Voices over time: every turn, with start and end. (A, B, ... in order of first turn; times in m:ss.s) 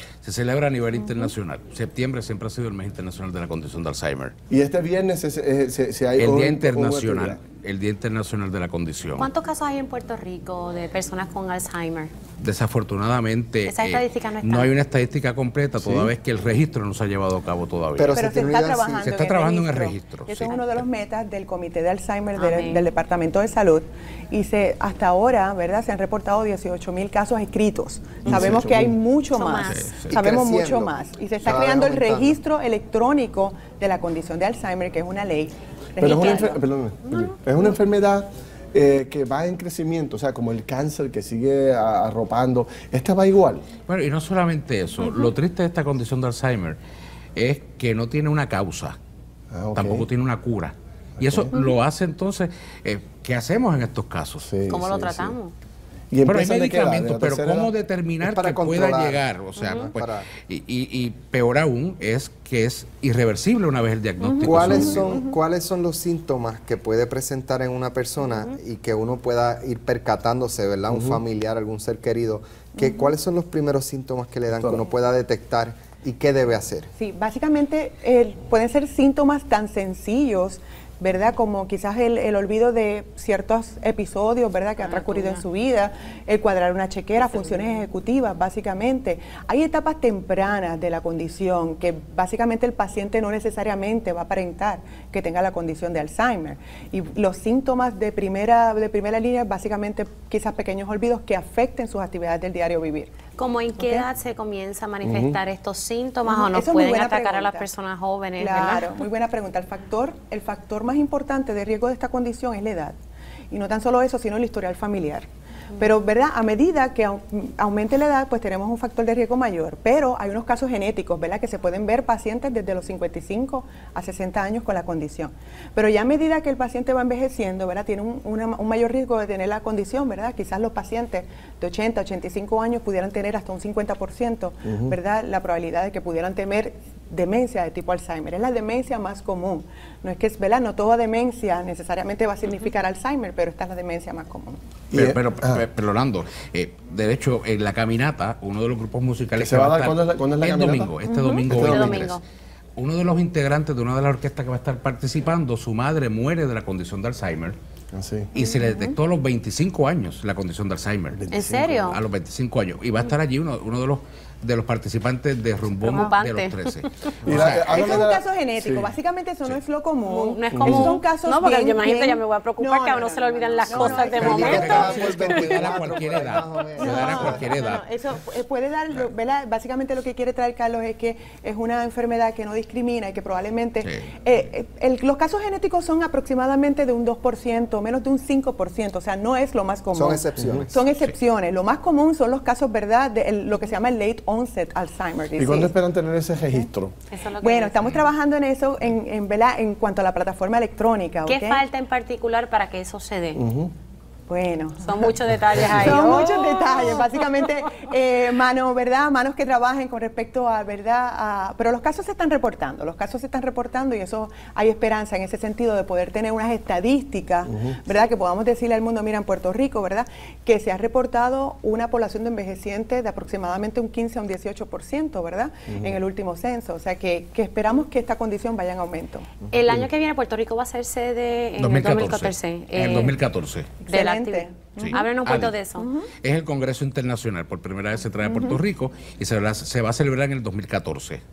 0:00.2-0:04.3 A
0:04.5-0:07.4 B
0:06.2-0:09.3 A
0:09.2-0:12.1 C
0:12.4-0:18.3 A
0:13.6-0:14.7 C
0:15.8-0:16.1 D
0:17.9-0:19.0 D
0:18.1-0:36.6 E
0:19.0-0:20.8 A
0:22.4-0:22.9 C
0:28.2-0:28.9 B
0:29.3-0:29.9 C
0:29.6-0:30.2 A
0:30.1-0:32.4 D
0:36.0-0:43.6 B
0:36.0-0:36.5 C
0:43.9-0:46.8 A
0:47.4-0:49.0 A
0:49.5-0:50.0 B
0:49.7-0:54.5 A
0:51.2-0:51.5 B
0:54.4-0:55.4 B
0:54.7-0:55.5 C
0:56.1-0:57.7 B
0:56.2-1:05.1 A
0:58.2-1:00.3 D
0:59.6-0:59.9 C
1:04.2-1:05.4 E
1:04.4-1:16.9 D
1:10.9-1:11.2 B
1:12.8-1:13.1 E
1:14.6-1:14.8 B
1:16.9-1:43.1 E
1:24.8-1:25.4 C
1:43.4-1:48.9 C
1:43.8-1:44.1 E
1:45.0-1:45.4 B
1:46.2-1:47.7 E
1:48.4-1:52.9 E
1:53.5-1:55.2 E
1:55.8-2:24.6 E
2:14.6-2:14.9 B
2:24.9-2:32.2 A
2:24.9-2:25.6 B
2:29.4-2:32.1 B
2:31.3-2:32.2 C
2:32.8-2:37.6 A
2:37.9-2:38.3 B
2:38.3-2:41.2 A
2:41.1-2:41.9 B
2:41.3-2:42.0 C
2:41.9-2:48.0 A
2:45.8-2:47.2 C
2:47.2-2:48.9 B
2:47.3-2:55.2 E
2:50.0-2:55.6 C
2:50.5-2:50.9 B
2:54.0-2:57.5 D
2:54.1-2:57.8 A
2:56.8-3:15.7 E
3:09.9-3:10.8 D
3:10.4-3:10.6 B
3:15.4-3:16.9 B
3:17.1-3:18.0 C
3:17.4-3:21.6 E
3:21.2-3:23.4 C
3:23.4-3:23.7 B
3:24.3-3:25.1 E
3:24.8-3:27.1 C
3:25.7-3:49.3 E
3:37.5-3:37.8 B
3:45.7-3:46.0 B
3:49.5-3:53.2 C
3:51.6-3:53.8 A
3:53.8-3:55.1 E
3:53.9-3:55.9 C
3:54.8-3:55.6 A
3:55.7-3:56.1 E
3:56.2-4:01.2 A
3:58.2-3:58.6 E